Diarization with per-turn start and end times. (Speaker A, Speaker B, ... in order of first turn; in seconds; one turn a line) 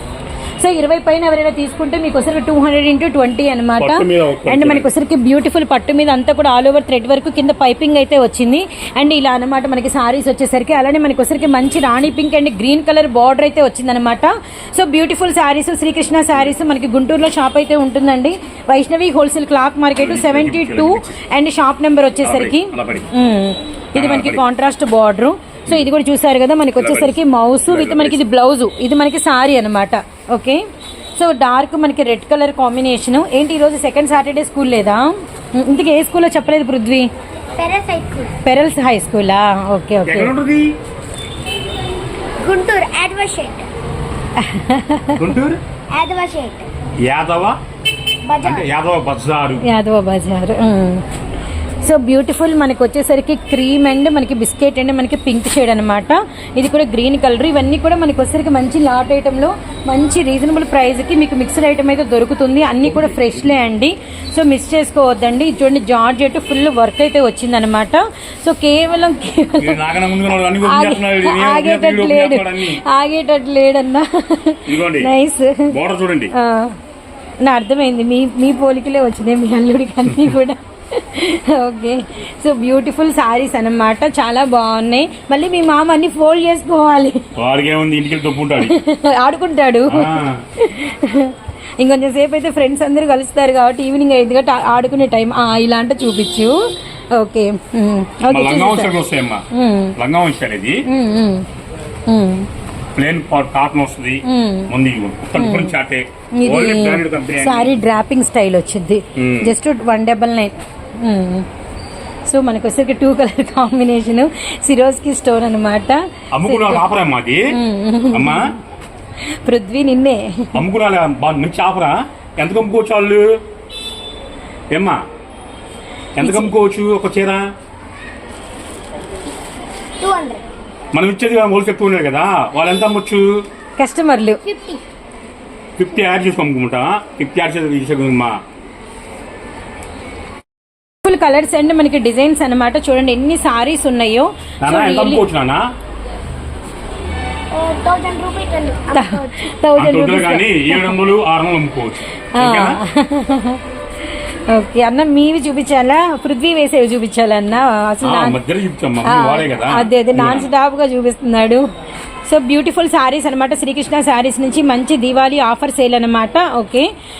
Speaker A: 0.6-30.6
Speaker B: 3.8-4.9
Speaker B: 19.9-21.2
Speaker B: 22.2-23.1
Speaker B: 23.9-24.4
Speaker B: 26.8-28.2
Speaker A: 31.1-37.1
Speaker C: 37.5-38.3
Speaker A: 38.4-40.3
Speaker B: 40.0-40.7
Speaker C: 42.4-43.7
Speaker A: 44.4-45.2
Speaker B: 45.1-45.6
Speaker C: 45.9-46.7
Speaker B: 47.0-47.6
Speaker C: 48.2-48.7
Speaker B: 48.4-49.6
Speaker A: 49.6-51.0
Speaker A: 51.8-75.7
Speaker B: 62.9-63.3
Speaker B: 69.6-72.8
Speaker B: 74.7-75.1
Speaker B: 75.7-76.3
Speaker A: 76.3-76.8
Speaker A: 77.4-87.2
Speaker B: 87.3-88.8
Speaker A: 88.6-96.6
Speaker B: 89.9-90.4
Speaker A: 97.1-98.9
Speaker B: 98.3-99.4
Speaker A: 99.5-99.9
Speaker B: 100.0-100.8
Speaker A: 100.8-101.5
Speaker A: 102.1-102.5
Speaker B: 102.9-107.8
Speaker A: 104.2-104.7
Speaker A: 105.3-105.7
Speaker A: 106.3-111.5
Speaker B: 109.2-109.5
Speaker A: 112.3-116.8
Speaker B: 116.3-117.4
Speaker A: 117.5-118.5
Speaker B: 118.1-118.4
Speaker A: 119.2-120.6
Speaker B: 120.5-123.4
Speaker B: 124.7-125.0
Speaker B: 126.2-127.4
Speaker A: 126.2-126.5
Speaker C: 130.0-130.4
Speaker B: 130.9-133.4
Speaker A: 133.8-134.4
Speaker C: 134.4-134.8
Speaker B: 135.8-138.4
Speaker A: 141.0-145.2
Speaker B: 144.6-145.6
Speaker C: 147.5-149.5
Speaker A: 148.9-151.0
Speaker B: 149.7-152.8
Speaker A: 152.3-153.6
Speaker A: 154.5-158.4
Speaker B: 158.0-160.5
Speaker A: 159.0-161.6
Speaker A: 162.3-166.9